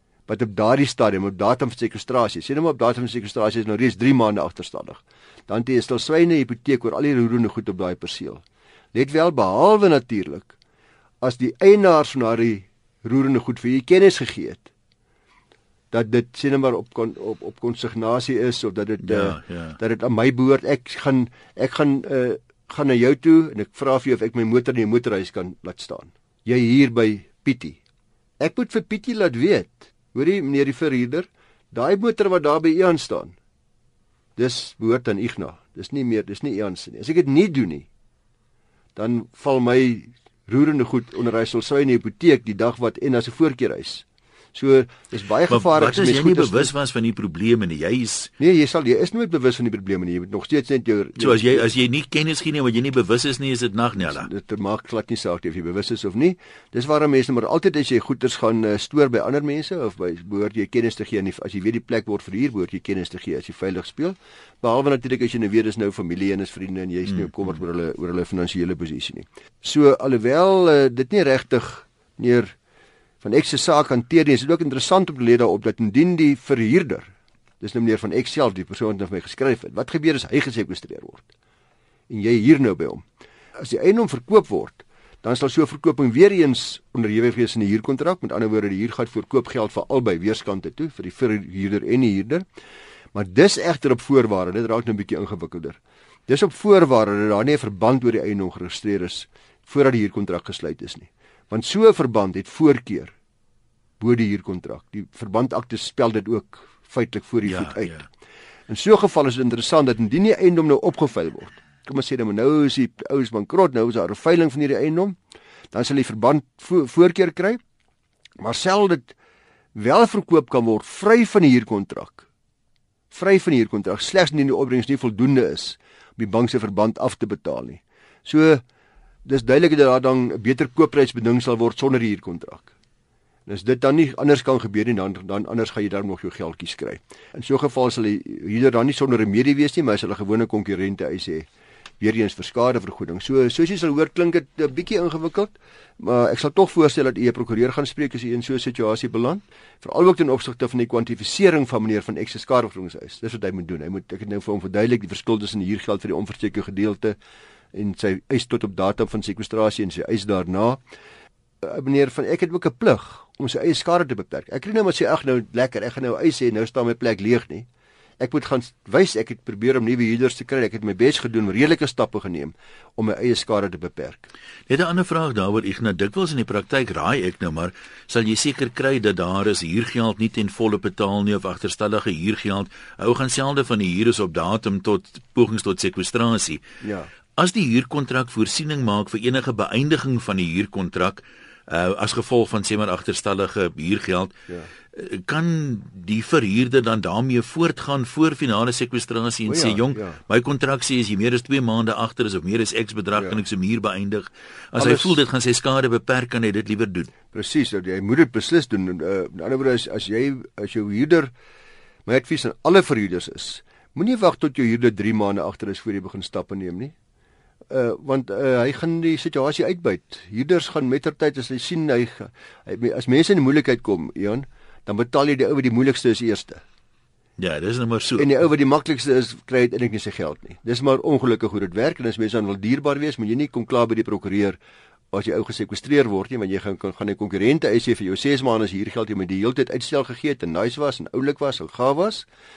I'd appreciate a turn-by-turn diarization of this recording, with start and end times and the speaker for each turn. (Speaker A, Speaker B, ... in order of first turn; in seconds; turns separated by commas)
Speaker A: 0.3-8.4, Speaker A: 8.9-10.5, Speaker A: 11.2-14.7, Speaker A: 15.9-27.8, Speaker B: 19.0-19.8, Speaker A: 28.4-33.3, Speaker A: 34.4-37.9, Speaker A: 39.0-46.7, Speaker B: 45.5-48.3, Speaker A: 48.4-51.7, Speaker B: 51.2-54.3, Speaker A: 54.0-72.5, Speaker A: 73.2-81.3, Speaker A: 82.1-83.0, Speaker A: 83.6-92.4, Speaker A: 93.1-103.1, Speaker A: 104.0-108.0, Speaker B: 107.5-108.0, Speaker A: 108.7-115.2, Speaker A: 115.7-117.6, Speaker A: 118.4-119.1, Speaker A: 119.7-122.2, Speaker A: 123.1-128.6, Speaker A: 129.2-132.7, Speaker A: 133.4-141.5, Speaker A: 142.0-157.1, Speaker A: 157.7-160.8, Speaker A: 161.6-167.7, Speaker A: 168.2-174.3, Speaker B: 174.7-186.6, Speaker A: 186.8-187.1, Speaker B: 187.3-194.4, Speaker B: 194.9-207.1, Speaker A: 199.5-200.2, Speaker A: 204.8-205.2, Speaker A: 207.3-211.3, Speaker A: 212.1-216.9, Speaker A: 217.7-226.6, Speaker B: 227.4-228.3, Speaker A: 228.2-234.6, Speaker A: 235.1-242.3